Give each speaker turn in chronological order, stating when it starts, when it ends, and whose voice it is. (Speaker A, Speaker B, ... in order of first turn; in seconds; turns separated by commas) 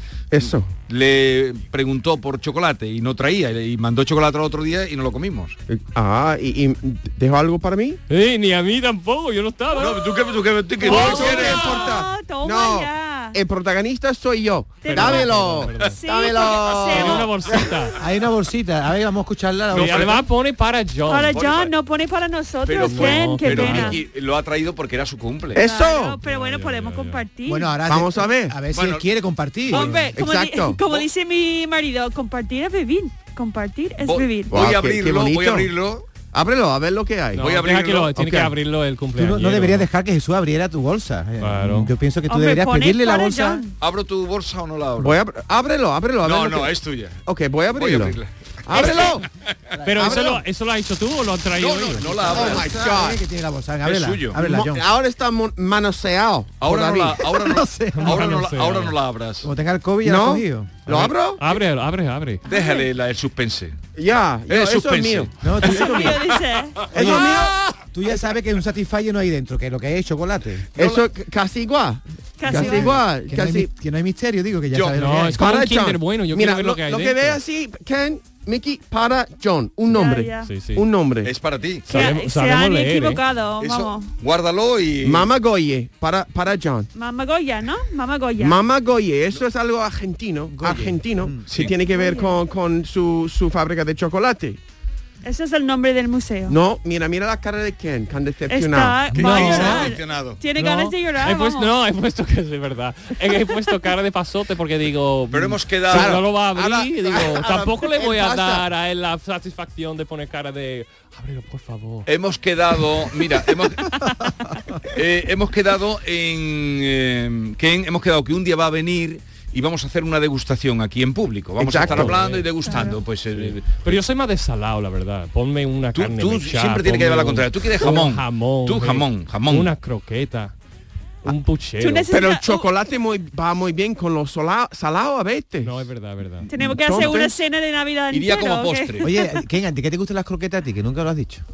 Speaker A: 0.3-0.7, Speaker B: 0.5-5.6, Speaker A: 5.7-8.0, Speaker C: 8.1-10.1, Speaker B: 9.8-11.8, Speaker A: 10.8-17.3, Speaker D: 10.8-13.4, Speaker C: 10.9-11.4, Speaker D: 14.8-17.3, Speaker C: 14.8-16.0, Speaker C: 16.9-18.0, Speaker E: 18.0-20.2, Speaker C: 19.7-21.4, Speaker B: 19.7-20.2, Speaker D: 21.1-24.0, Speaker B: 21.3-21.7, Speaker B: 22.6-25.6, Speaker C: 22.8-24.0, Speaker A: 25.6-26.2, Speaker D: 25.6-27.7, Speaker C: 26.2-27.3, Speaker E: 27.5-30.1, Speaker A: 27.9-28.6, Speaker B: 28.7-29.1, Speaker B: 29.7-30.1, Speaker D: 29.7-34.6, Speaker A: 30.1-30.8, Speaker B: 34.0-36.0, Speaker A: 34.5-35.7, Speaker A: 36.3-38.5, Speaker C: 37.3-39.9, Speaker B: 37.4-38.1, Speaker E: 39.2-43.6, Speaker C: 41.4-41.9, Speaker D: 42.3-43.7, Speaker B: 43.8-45.2, Speaker A: 45.0-46.8, Speaker B: 46.2-49.3, Speaker A: 47.3-49.3, Speaker E: 49.8-50.4, Speaker C: 49.8-52.5, Speaker A: 50.0-50.4, Speaker B: 51.6-52.7, Speaker E: 52.3-54.9, Speaker A: 52.3-53.2, Speaker B: 53.8-54.4, Speaker A: 54.4-57.3, Speaker B: 56.6-59.5, Speaker E: 57.3-58.4, Speaker C: 57.9-58.9, Speaker E: 59.4-61.1, Speaker A: 60.0-61.4, Speaker C: 61.4-62.4, Speaker B: 62.5-63.8, Speaker D: 62.5-62.9, Speaker A: 64.0-66.3, Speaker B: 64.5-66.1, Speaker E: 65.4-66.2, Speaker D: 65.6-67.2, Speaker A: 66.9-67.6, Speaker E: 66.9-70.8, Speaker A: 70.8-73.7, Speaker D: 72.4-73.0, Speaker E: 72.5-75.4, Speaker B: 74.7-75.0, Speaker C: 74.9-77.4, Speaker A: 75.3-81.3, Speaker D: 79.9-80.5, Speaker C: 80.4-80.8, Speaker B: 81.2-82.1, Speaker D: 81.9-84.1, Speaker C: 81.9-83.2, Speaker B: 83.6-85.3, Speaker A: 85.0-86.9, Speaker D: 87.0-88.6, Speaker A: 88.4-94.6, Speaker E: 90.5-91.5, Speaker B: 91.5-91.8, Speaker D: 91.9-92.4, Speaker D: 95.2-96.6, Speaker A: 96.5-99.1, Speaker D: 98.5-101.7, Speaker C: 99.1-99.9, Speaker B: 99.1-100.4, Speaker C: 100.5-112.1, Speaker B: 105.3-106.2, Speaker A: 105.9-108.7, Speaker B: 112.1-114.0, Speaker B: 114.9-124.0, Speaker A: 121.6-122.4, Speaker C: 121.9-130.5, Speaker D: 122.6-123.0, Speaker B: 126.0-129.7, Speaker C: 131.2-132.1, Speaker D: 131.8-132.8, Speaker A: 132.1-135.8, Speaker C: 135.6-136.5, Speaker D: 136.5-139.2, Speaker A: 136.5-137.4, Speaker B: 138.1-139.1, Speaker E: 139.0-141.4